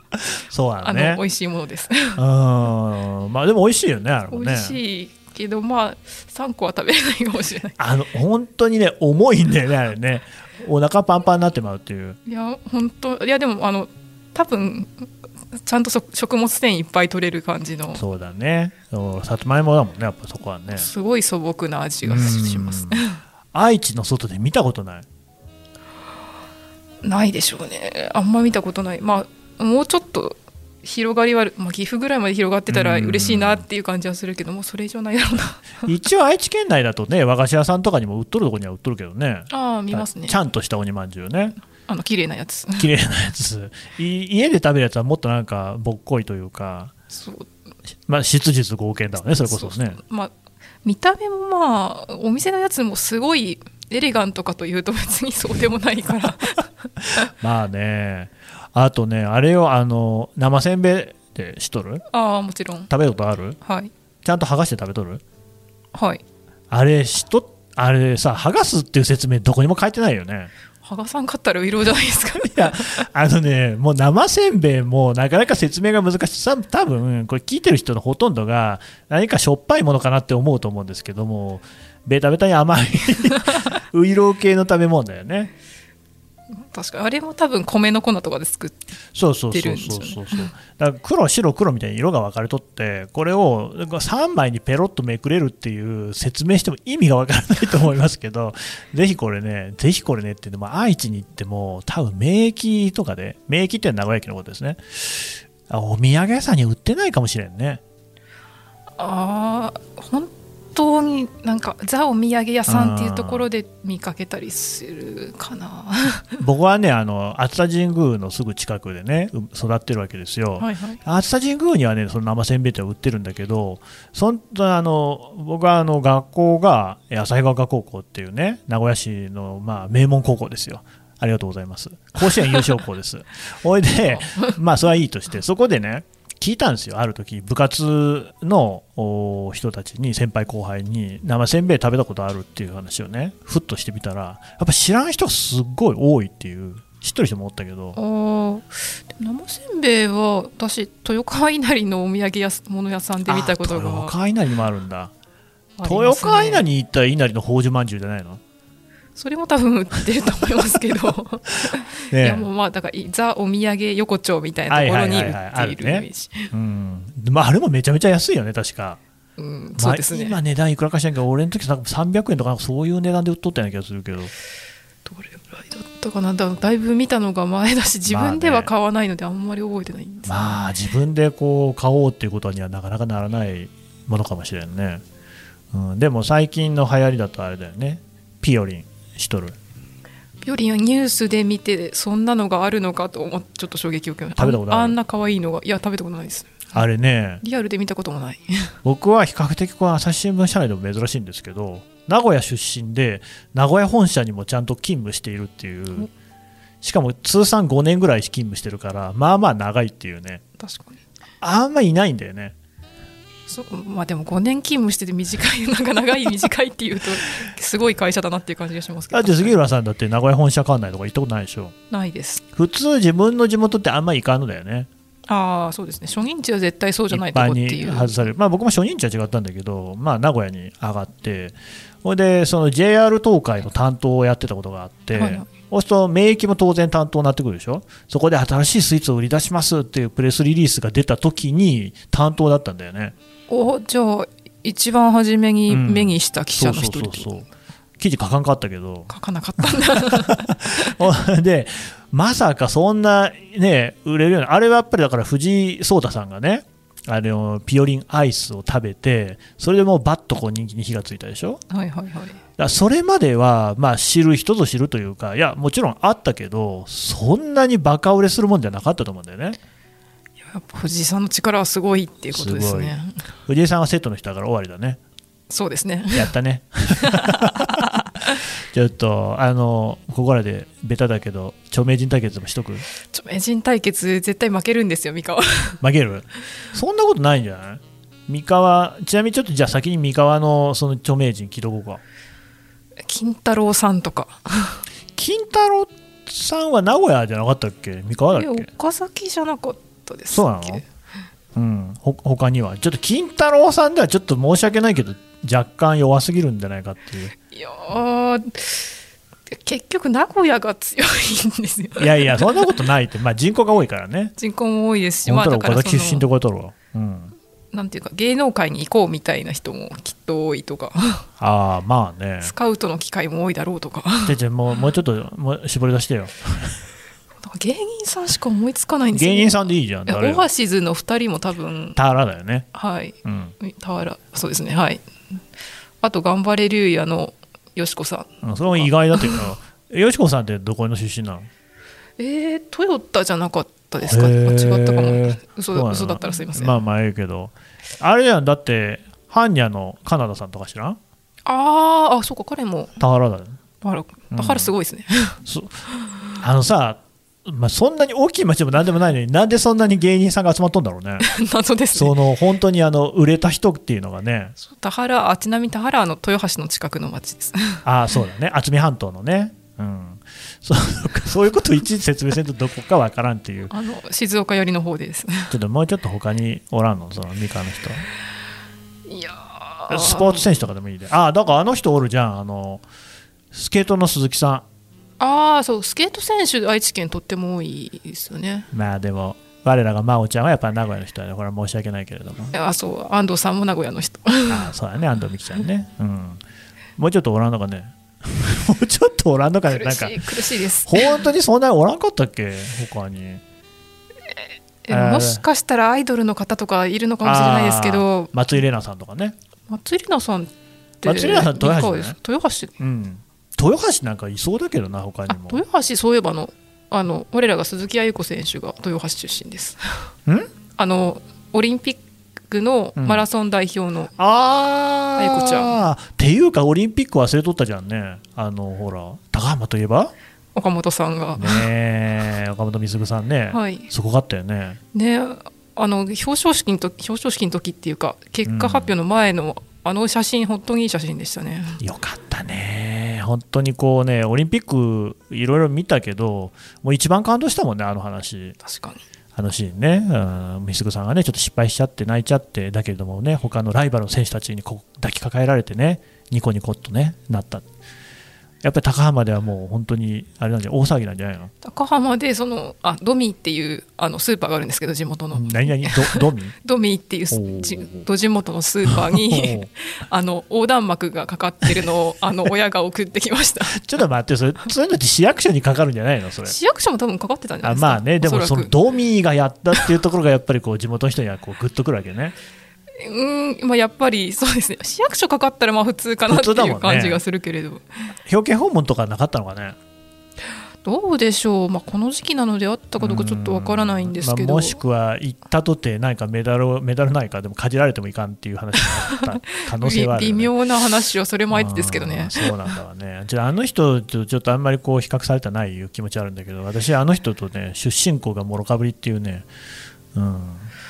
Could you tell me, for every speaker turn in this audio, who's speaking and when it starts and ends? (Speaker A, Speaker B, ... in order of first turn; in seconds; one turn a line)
Speaker A: 0.1-1.2
Speaker B: 0.8-2.2
Speaker A: 2.2-4.8
Speaker B: 4.3-7.8
Speaker A: 7.8-12.2
Speaker B: 12.2-18.0
Speaker A: 18.0-20.9
Speaker B: 20.7-23.2
Speaker A: 22.0-25.1
Speaker B: 27.0-35.9
Speaker A: 32.7-33.6
Speaker A: 35.9-41.5
Speaker B: 39.5-40.4
Speaker B: 41.9-42.9
Speaker A: 42.8-46.9
Speaker B: 47.1-47.5
Speaker A: 48.1-50.0
Speaker B: 49.3-57.2
Speaker A: 57.4-62.0
Speaker B: 62.1-62.9
Speaker A: 62.9-63.6
Speaker B: 63.6-63.9
Speaker A: 64.2-65.2
Speaker B: 65.9-66.2
Speaker A: 66.7-70.5
Speaker B: 70.8-73.0
Speaker A: 72.4-85.5
Speaker B: 86.6-88.8
Speaker A: 89.1-107.8
Speaker B: 89.5-90.5
Speaker B: 109.0-116.3
Speaker A: 112.7-113.5
Speaker A: 116.4-148.0
Speaker B: 120.6-121.0
Speaker B: 134.1-134.6
Speaker B: 147.9-154.1
Speaker A: 153.3-155.1
Speaker B: 155.8-156.6
Speaker A: 155.8-158.4
Speaker B: 159.2-166.5
Speaker A: 162.1-162.5
Speaker A: 164.7-169.0
Speaker B: 169.4-170.4
Speaker A: 169.8-174.3
Speaker B: 175.1-180.5
Speaker A: 178.1-178.7
Speaker A: 180.2-185.0
Speaker A: 185.7-189.6
Speaker B: 190.4-196.7
Speaker A: 194.4-195.0
Speaker A: 196.7-197.4
Speaker B: 197.4-198.7
Speaker A: 198.8-206.1
Speaker A: 206.8-210.4
Speaker B: 210.6-211.0
Speaker A: 211.4-212.5
Speaker B: 213.5-219.5
Speaker A: 219.1-221.7
Speaker B: 221.9-222.4
Speaker A: 222.5-224.9
Speaker B: 225.3-228.1
Speaker A: 227.1-243.1
Speaker B: 235.1-235.5
Speaker B: 243.5-247.3
Speaker A: 245.7-249.1
Speaker B: 249.1-250.5
Speaker A: 249.6-261.6
Speaker B: 261.7-262.4
Speaker A: 262.6-269.6
Speaker B: 270.4-273.2
Speaker A: 272.3-272.9
Speaker A: 273.5-275.0
Speaker B: 275.5-276.3
Speaker A: 276.1-277.9
Speaker B: 277.0-278.4
Speaker A: 278.6-282.8
Speaker B: 283.1-285.8
Speaker A: 285.8-292.0
Speaker B: 293.1-294.8
Speaker A: 295.1-298.7
Speaker B: 298.3-300.8
Speaker A: 300.3-300.8
Speaker A: 301.5-307.3
Speaker B: 307.5-308.9
Speaker B: 309.5-312.7
Speaker A: 312.0-314.3
Speaker B: 314.4-316.3
Speaker A: 315.2-317.3
Speaker B: 317.7-321.2
Speaker A: 321.4-322.5
Speaker B: 322.4-324.4
Speaker A: 324.2-326.8
Speaker B: 327.4-332.0
Speaker A: 329.1-330.4
Speaker A: 331.9-332.7
Speaker B: 332.7-335.4
Speaker A: 333.2-333.5
Speaker B: 336.0-339.4
Speaker A: 338.4-341.5
Speaker B: 342.2-346.8
Speaker A: 344.0-351.0
Speaker B: 351.4-352.9
Speaker A: 353.0-353.6
Speaker B: 353.8-355.4
Speaker A: 354.3-354.7
Speaker A: 355.4-355.8
Speaker A: 356.4-361.2
Speaker B: 361.2-362.1
Speaker A: 361.9-364.5
Speaker B: 364.6-367.8
Speaker A: 367.8-373.7
Speaker B: 373.7-375.5
Speaker A: 375.5-378.0
Speaker B: 379.1-380.5
Speaker A: 379.9-382.8
Speaker A: 383.5-384.6
Speaker B: 385.2-388.7
Speaker A: 388.7-392.5
Speaker B: 392.5-394.7
Speaker A: 394.5-396.4
Speaker A: 397.0-400.3
Speaker B: 399.7-401.3
Speaker A: 400.8-403.4
Speaker B: 404.8-408.3
Speaker A: 404.9-405.4
Speaker A: 407.2-409.4
Speaker B: 409.7-412.7
Speaker A: 411.0-412.1
Speaker A: 412.8-415.6
Speaker B: 415.3-420.1
Speaker B: 420.8-424.1
Speaker A: 423.0-423.2
Speaker A: 424.2-430.1
Speaker B: 425.2-425.8
Speaker B: 430.5-431.6
Speaker A: 431.4-434.8
Speaker B: 433.5-433.9
Speaker B: 434.9-441.8
Speaker A: 438.4-438.9
Speaker A: 441.8-448.6
Speaker B: 448.6-449.0
Speaker A: 449.3-457.7
Speaker A: 458.6-461.5
Speaker B: 461.6-473.8
Speaker A: 465.3-466.5
Speaker A: 467.3-468.1
Speaker A: 468.9-469.7
Speaker A: 473.7-476.5
Speaker B: 476.4-478.7
Speaker A: 477.6-482.4
Speaker B: 483.0-487.9
Speaker A: 486.3-487.2
Speaker A: 488.2-489.8
Speaker B: 490.8-494.8
Speaker A: 493.0-500.5
Speaker B: 499.8-502.5
Speaker A: 501.5-509.5
Speaker A: 510.1-510.7